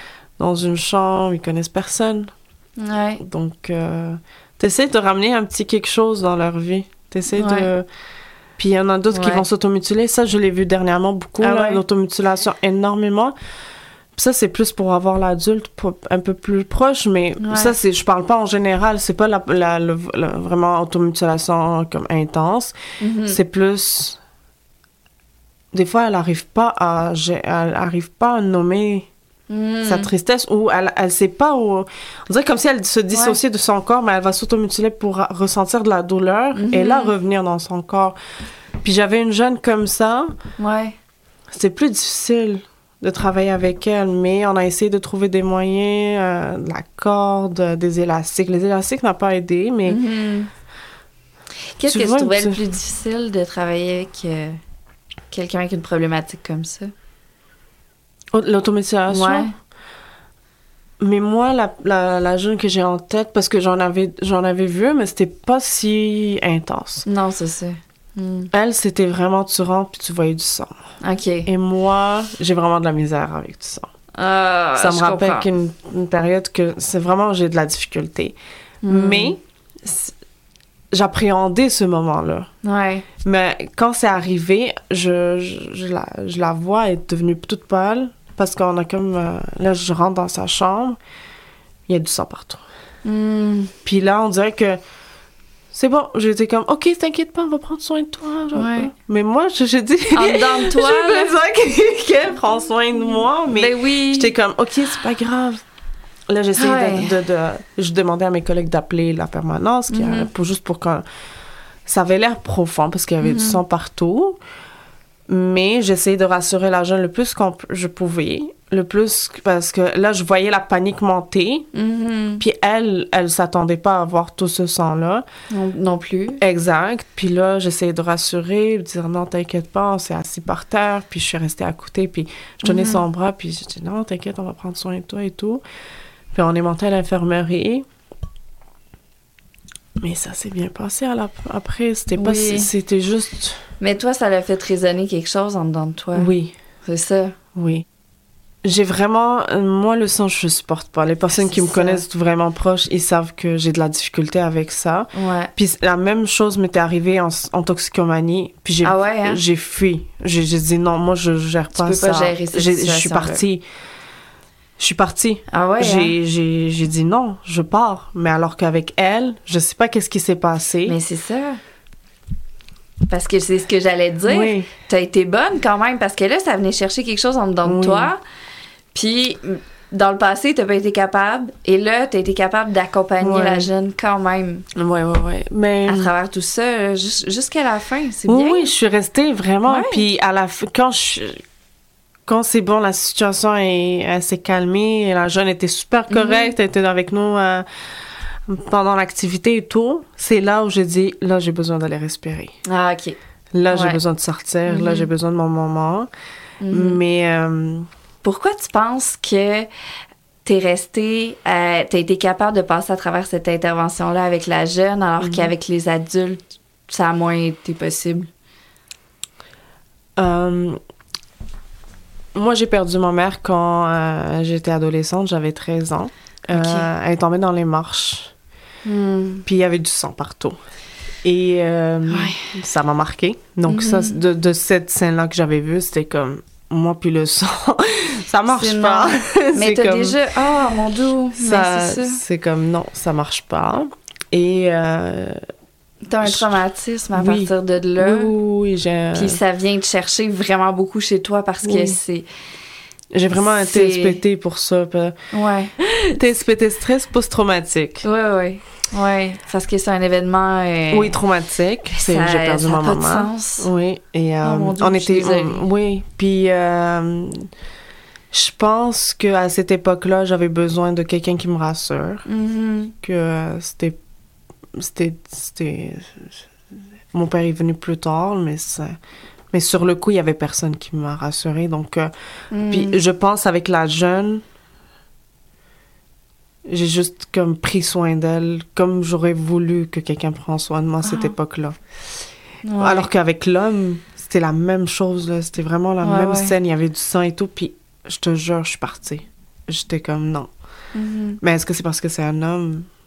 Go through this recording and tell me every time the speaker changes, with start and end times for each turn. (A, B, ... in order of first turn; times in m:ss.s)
0:00.4-0:02.3 A
0:02.8-0:03.2 B
0:03.2-0:07.9 A
0:07.3-0:07.7 B
0:08.6-0:13.3 A
0:09.1-0:09.4 B
0:11.4-0:11.8 B
0:14.2-0:24.2 A
0:17.4-0:17.7 B
0:23.0-0:23.4 B
0:25.7-0:29.1 A
0:29.5-0:30.1 B
0:29.8-0:38.1 A
0:33.1-0:33.4 B
0:36.5-0:37.1 B
0:38.8-0:40.3 A
0:40.6-0:41.0 B
0:41.5-0:50.0 A
0:49.8-0:50.5 B
0:51.8-0:54.6 B
0:51.9-0:52.6 A
0:55.3-0:56.9 B
0:58.3-0:59.5 A
0:59.1-0:59.5 B
1:01.0-1:07.0 A
1:07.0-1:08.5 B
1:08.5-1:10.7 A
1:11.0-1:11.5 B
1:11.4-1:13.9 A
1:14.2-1:15.5 B
1:14.8-1:20.1 A
1:18.8-1:19.4 B
1:20.9-1:22.5 A
1:22.6-1:23.0 B
1:23.2-1:31.0 A
1:31.9-1:32.6 A
1:33.0-1:33.7 B
1:33.8-1:34.8 A
1:35.7-1:45.6 A
1:38.5-1:38.9 B
1:40.1-1:41.3 B
1:43.5-1:44.3 B
1:46.3-1:51.0 A
1:46.6-1:47.1 B
1:49.9-1:50.3 B
1:51.8-1:54.4 A
1:53.2-1:53.6 B
1:55.3-2:01.7 A
2:01.7-2:02.4 B
2:02.4-2:05.2 A
2:05.5-2:06.4 B
2:06.4-2:15.6 A
2:12.6-2:13.0 B
2:16.3-2:17.8 A
2:20.0-2:23.6 A
2:22.1-2:22.7 B
2:23.8-2:26.3 B
2:26.1-2:26.5 A
2:26.8-2:27.4 B
2:27.5-2:27.8 A
2:28.6-2:43.6 A
2:31.3-2:32.0 B
2:35.1-2:35.5 B
2:38.8-2:39.4 B
2:41.7-2:43.4 B
2:44.8-2:51.0 A
2:45.5-2:46.1 B
2:50.8-2:51.6 B
2:53.1-2:58.2 B
2:54.3-2:54.7 A
2:57.6-2:58.1 A
2:58.9-3:04.6 B
3:03.2-3:03.7 A
3:04.7-3:06.1 A
3:05.9-3:08.7 B
3:08.3-3:11.4 A
3:09.7-3:10.0 B
3:12.3-3:17.6 A
3:16.1-3:16.5 B
3:18.4-3:22.5 A
3:22.6-3:23.2 B
3:23.5-3:26.1 A
3:23.7-3:24.0 B
3:24.7-3:25.1 B
3:26.6-3:27.0 B
3:26.7-3:27.9 A
3:28.2-3:29.7 B
3:30.4-3:38.3 B
3:35.2-3:35.5 A
3:40.2-3:40.8 A
3:42.3-3:48.3 A
3:46.5-3:46.9 B
3:48.8-3:49.4 B
3:49.4-3:50.6 A
3:51.2-4:00.2 A
3:52.1-3:52.5 B
3:53.7-3:54.2 B
3:58.5-4:02.2 B
4:01.3-4:05.4 A
4:06.0-4:08.3 B
4:06.2-4:06.6 A
4:07.1-4:09.4 A
4:09.1-4:12.2 B
4:11.6-4:12.0 A
4:13.1-4:15.1 A
4:13.4-4:14.2 B
4:15.3-4:16.2 B
4:16.2-4:18.0 A
4:18.0-4:21.2 B
4:20.9-4:27.5 A
4:21.9-4:23.7 B
4:24.4-4:25.6 B
4:28.3-4:32.2 A
4:32.2-4:32.9 B
4:33.0-4:34.0 A
4:34.7-4:36.4 A
4:37.1-4:39.0 A
4:39.5-4:42.1 A
4:42.5-4:43.0 B
4:42.7-4:44.4 A
4:46.6-4:51.8 A
4:51.0-4:51.3 B
4:52.6-4:53.1 B
4:52.8-5:00.5 A
4:56.0-4:56.5 B
5:00.9-5:01.4 B
5:01.4-5:02.9 A